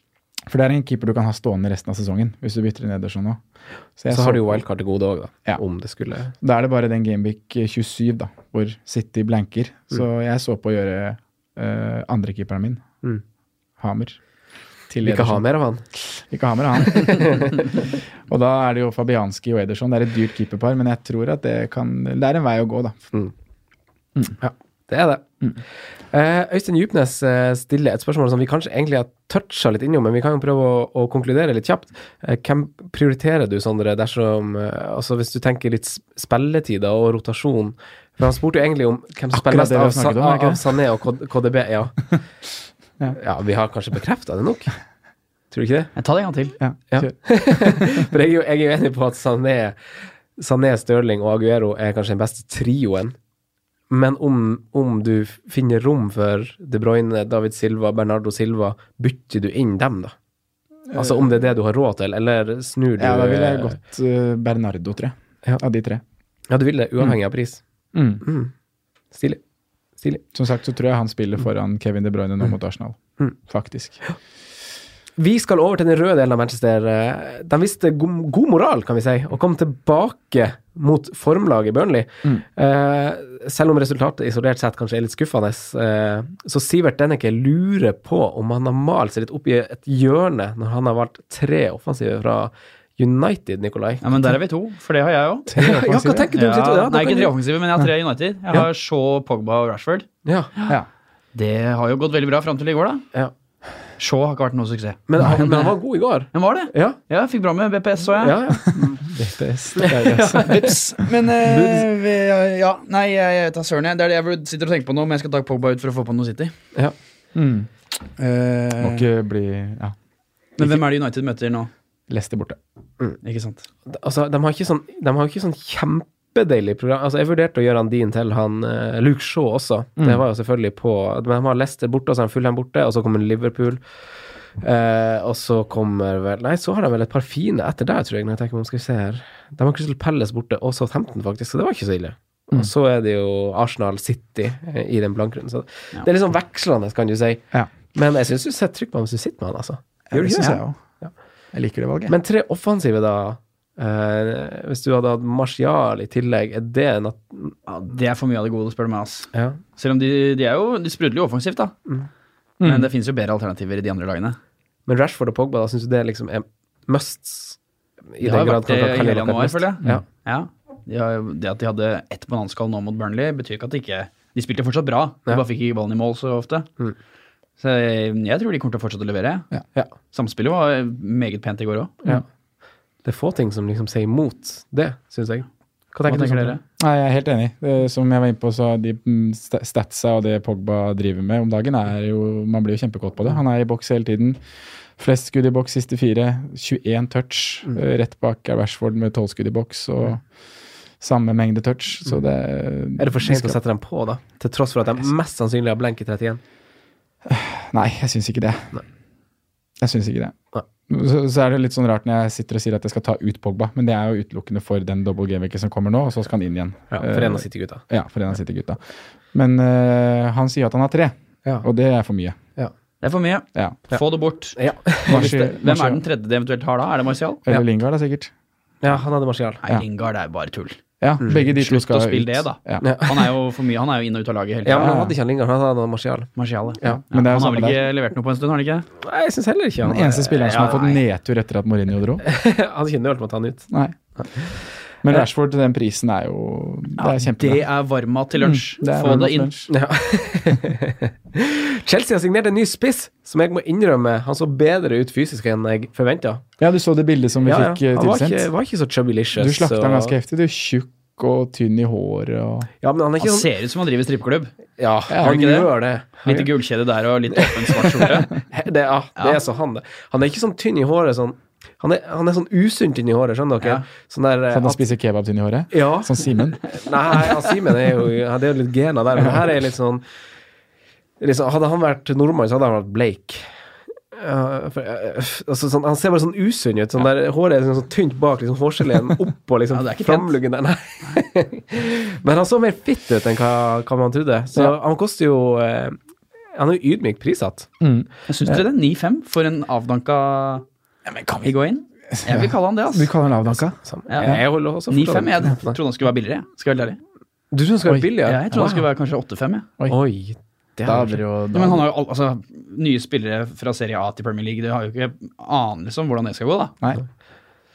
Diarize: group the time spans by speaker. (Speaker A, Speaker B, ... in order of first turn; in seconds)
Speaker A: 0.5-3.4, 4.0-4.6, 6.4-12.8, 13.8-14.2, 14.9-15.4, 16.0-17.6, 18.3-23.1, 39.3-40.6, 46.6-48.0, 60.9-61.3, 63.0-66.0, 67.9-68.2, 70.3-74.0, 95.5-96.3, 109.1-110.6, 117.3-117.7, 118.8-120.0, 120.6-120.8, 122.1-122.6, 130.0-130.2, 150.1-150.8, 151.5-152.2, 162.6-162.9, 186.8-194.4, 195.0-200.2, 201.0-203.6, 207.2-208.7, 209.8-210.4, 210.9-218.8, 219.3-222.4, 225.1-226.0, 227.5-228.3, 231.0-232.9, 234.8-235.2, 236.8-237.8, 239.8-242.2, 243.7-244.1, 245.0-247.6, 248.4-249.7, 256.6-258.5, 259.4-262.7, 274.5-276.6, 297.8-298.6, 301.1-301.5, 302.1-304.4, 310.8-311.9
Speaker B: 4.1-6.3, 15.0-15.8, 17.0-17.6, 24.4-25.4, 26.1-42.0, 43.1-44.7, 45.5-45.9, 46.9-49.8, 50.4-53.1, 53.9-60.1, 61.0-63.7, 66.5-67.6, 68.2-68.5, 69.1-69.4, 75.2-94.0, 95.6-97.3, 100.2-100.5, 105.1-107.0, 108.2-110.7, 111.5-111.8, 123.9-133.8, 134.6-151.1, 152.1-157.6, 159.3-159.6, 164.9-167.6, 168.1-170.0, 183.0-186.6, 203.0-206.4, 216.9-217.8, 224.6-225.3, 228.8-229.6, 232.8-233.3, 234.6-237.0, 239.0-240.8, 242.2-243.7, 249.7-256.4, 257.4-260.1, 262.8-263.5, 264.8-266.5, 267.4-274.9, 275.7-280.0, 281.2-283.4, 284.1-296.0, 296.6-297.7, 303.8-305.8, 307.5-308.8, 309.9-311.2
Speaker C: 46.0-46.5, 94.0-95.5, 96.3-100.0, 101.3-103.0, 104.0-105.7, 106.3-108.4, 110.4-116.5, 118.2-119.0, 120.6-121.7, 123.2-123.6, 157.7-161.7, 162.6-164.4, 168.2-176.7, 177.6-179.5, 180.1-181.9, 186.1-186.6, 223.0-227.4, 229.6-230.8, 231.4-234.9, 236.4-238.9, 240.5-241.0, 247.0-249.5, 263.2-264.5, 265.2-268.3, 289.7-290.4, 298.3-300.6, 301.4-303.1, 304.1-307.0, 308.2-309.7, 311.5-316.7